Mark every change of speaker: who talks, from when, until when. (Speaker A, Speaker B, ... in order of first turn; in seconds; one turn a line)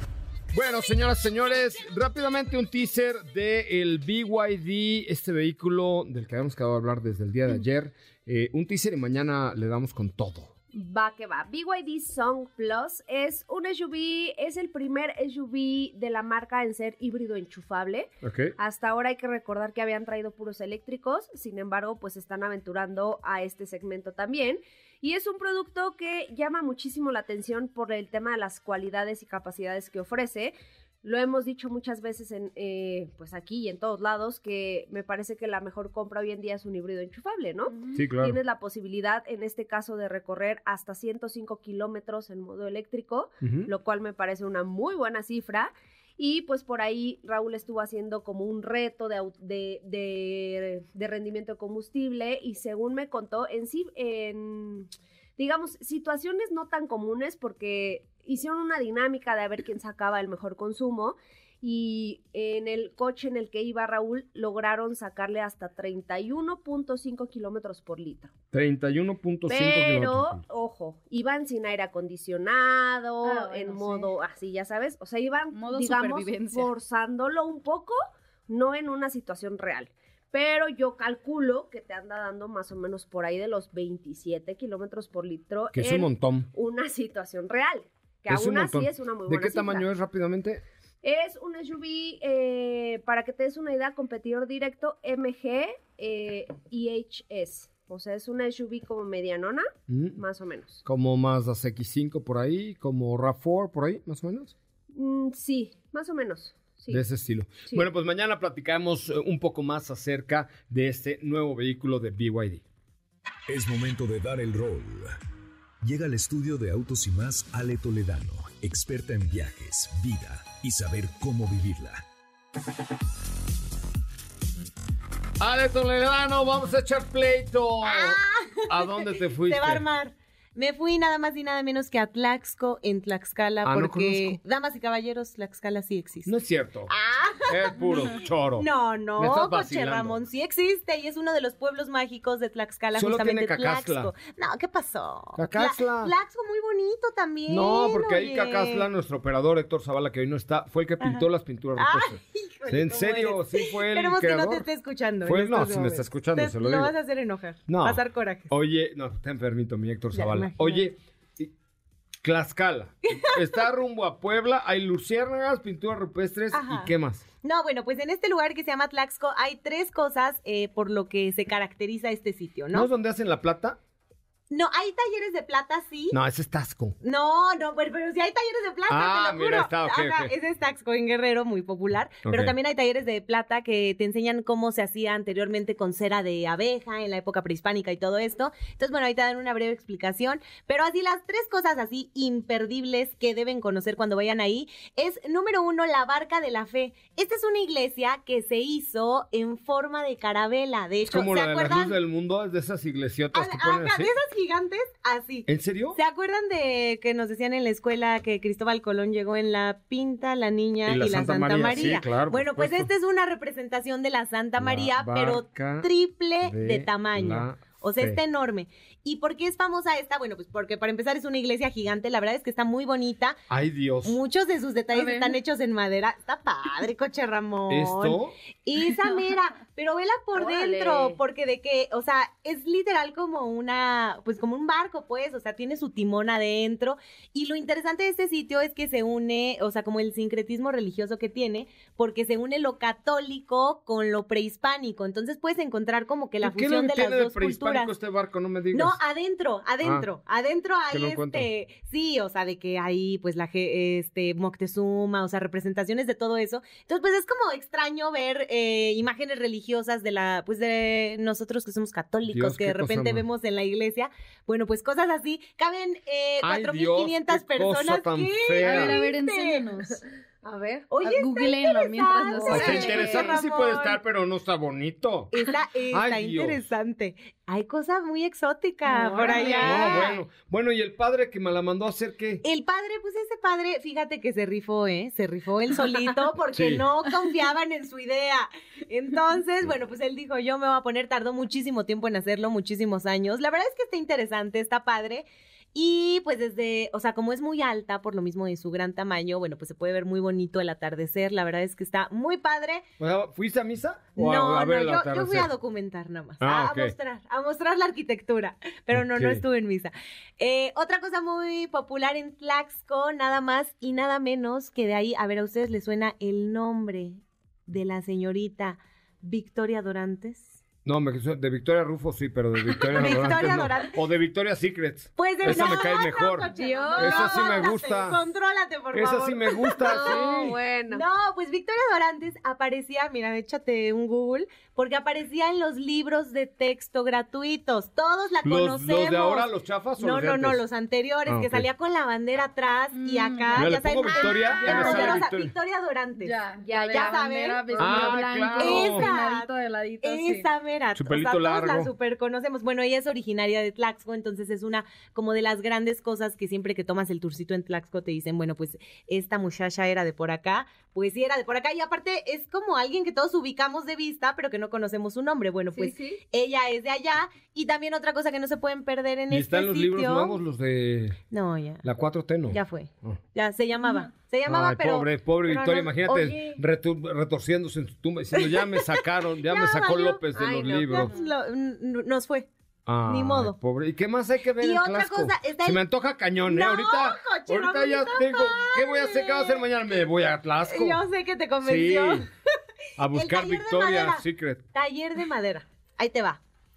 Speaker A: 0.5-10.5
Speaker B: 10.7-68.3
Speaker A: 18.2-18.5
Speaker C: 37.7-38.0
Speaker A: 38.0-38.4
Speaker A: 43.4-43.7
Speaker A: 68.5-70.4
Speaker B: 69.5-89.9
Speaker C: 73.2-74.1
Speaker C: 75.5-76.7
Speaker A: 85.7-86.5
Speaker A: 88.3-90.6
Speaker B: 91.0-100.8
Speaker A: 99.9-100.2
Speaker A: 100.8-104.5
Speaker B: 104.9-107.0
Speaker A: 106.9-112.6
Speaker D: 113.5-115.1
Speaker D: 115.8-122.0
Speaker A: 125.4-129.8
Speaker E: 127.8-136.3
Speaker A: 133.6-134.4
Speaker A: 136.2-136.9
Speaker E: 136.9-148.8
Speaker A: 137.5-138.7
Speaker A: 139.2-140.3
Speaker A: 142.9-144.1
Speaker A: 145.4-146.1
Speaker A: 147.5-154.6
Speaker E: 151.0-158.5
Speaker A: 155.2-156.9
Speaker A: 157.7-161.5
Speaker E: 160.1-160.9
Speaker A: 162.2-167.2
Speaker E: 163.1-163.6
Speaker E: 166.5-172.9
Speaker A: 172.7-173.8
Speaker E: 174.5-176.2
Speaker A: 176.1-177.0
Speaker E: 177.0-202.0
Speaker A: 178.9-180.3
Speaker A: 182.2-182.5
Speaker A: 201.1-204.1
Speaker E: 203.3-223.4
Speaker A: 205.4-206.0
Speaker A: 210.8-212.9
Speaker A: 214.6-215.9
Speaker A: 216.4-218.2
Speaker A: 223.5-224.2
Speaker E: 224.0-247.9
Speaker C: 224.9-225.4
Speaker A: 227.7-228.3
Speaker B: 230.3-231.2
Speaker A: 246.4-249.0
Speaker E: 248.7-269.7
Speaker A: 249.8-250.1
Speaker A: 250.9-251.5
Speaker A: 262.3-263.2
Speaker A: 266.4-269.0
Speaker C: 268.6-270.0
Speaker B: 270.4-270.9
Speaker E: 270.9-274.0
Speaker C: 271.0-273.0
Speaker B: 272.4-273.4
Speaker A: 272.5-276.6
Speaker E: 275.3-280.2
Speaker C: 278.9-280.0
Speaker A: 279.4-282.4
Speaker E: 282.4-302.8
Speaker A: 286.5-286.8
Speaker A: 303.0-305.5
Speaker E: 304.1-320.6
Speaker A: 306.4-306.9
Speaker A: 308.9-309.4
Speaker A: 320.8-328.2
Speaker E: 322.7-323.9
Speaker E: 325.1-346.3
Speaker B: 326.5-327.6
Speaker A: 328.9-330.5
Speaker B: 329.8-331.1
Speaker A: 338.4-340.6
Speaker A: 341.3-341.7
Speaker C: 342.9-345.2
Speaker A: 343.5-345.5
Speaker C: 346.2-350.5
Speaker B: 346.6-347.2
Speaker E: 346.9-349.5
Speaker A: 347.8-349.1
Speaker E: 350.0-370.4
Speaker A: 350.9-351.9
Speaker B: 365.7-366.2
Speaker A: 369.3-371.2
Speaker E: 371.3-371.8
Speaker A: 371.8-373.2
Speaker E: 372.5-376.6
Speaker C: 373.8-374.1
Speaker A: 374.4-381.1
Speaker E: 378.3-380.2
Speaker B: 380.3-381.0
Speaker E: 380.8-382.5
Speaker C: 381.1-381.3
Speaker A: 382.9-391.0
Speaker E: 383.0-383.6
Speaker E: 384.6-385.8
Speaker E: 386.4-389.6
Speaker E: 390.6-392.3
Speaker A: 391.6-392.2
Speaker A: 393.0-394.6
Speaker E: 393.0-396.4